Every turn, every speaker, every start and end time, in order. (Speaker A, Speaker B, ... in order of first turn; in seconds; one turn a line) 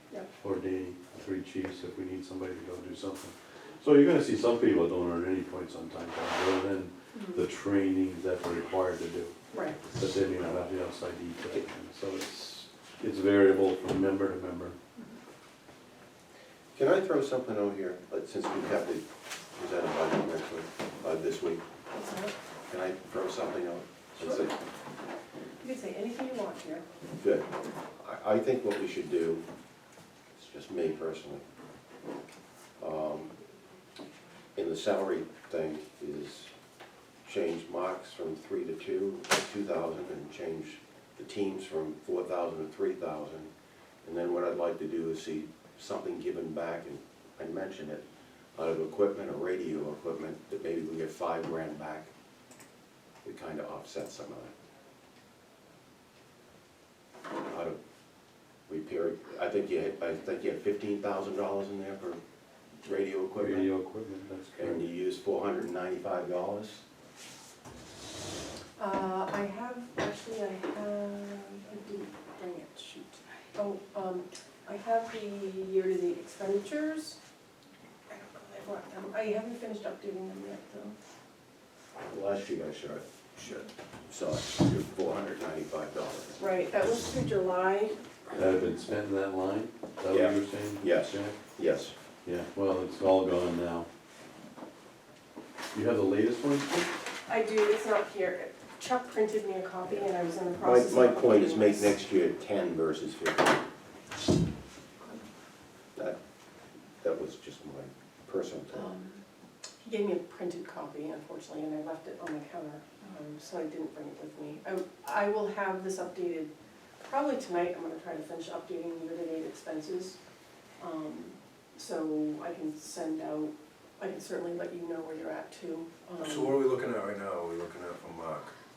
Speaker A: 0.4-14.8
Speaker B: 7.1-7.4
Speaker B: 9.5-9.8
Speaker C: 16.7-21.6
Speaker B: 21.9-22.3
Speaker C: 22.7-24.6
Speaker B: 24.2-24.4
Speaker B: 25.6-26.9
Speaker C: 27.2-27.5
Speaker C: 28.0-29.5
Speaker C: 30.4-31.4
Speaker C: 32.8-33.3
Speaker C: 34.6-36.5
Speaker C: 37.2-43.5
Speaker C: 44.0-48.0
Speaker C: 48.6-52.1
Speaker C: 53.2-54.5
Speaker C: 57.4-57.8
Speaker C: 58.7-62.2
Speaker C: 62.8-63.7
Speaker A: 63.4-64.9
Speaker C: 64.6-66.8
Speaker B: 68.8-77.2
Speaker B: 78.1-81.0
Speaker C: 82.0-86.4
Speaker B: 86.4-88.0
Speaker A: 88.3-91.4
Speaker C: 90.1-92.0
Speaker A: 92.2-93.9
Speaker A: 95.7-96.8
Speaker B: 97.3-101.9
Speaker C: 100.5-103.6
Speaker C: 107.0-108.9
Speaker B: 108.7-109.2
Speaker B: 109.8-116.5
Speaker B: 117.0-120.2
Speaker B: 120.8-126.6
Speaker D: 126.2-128.5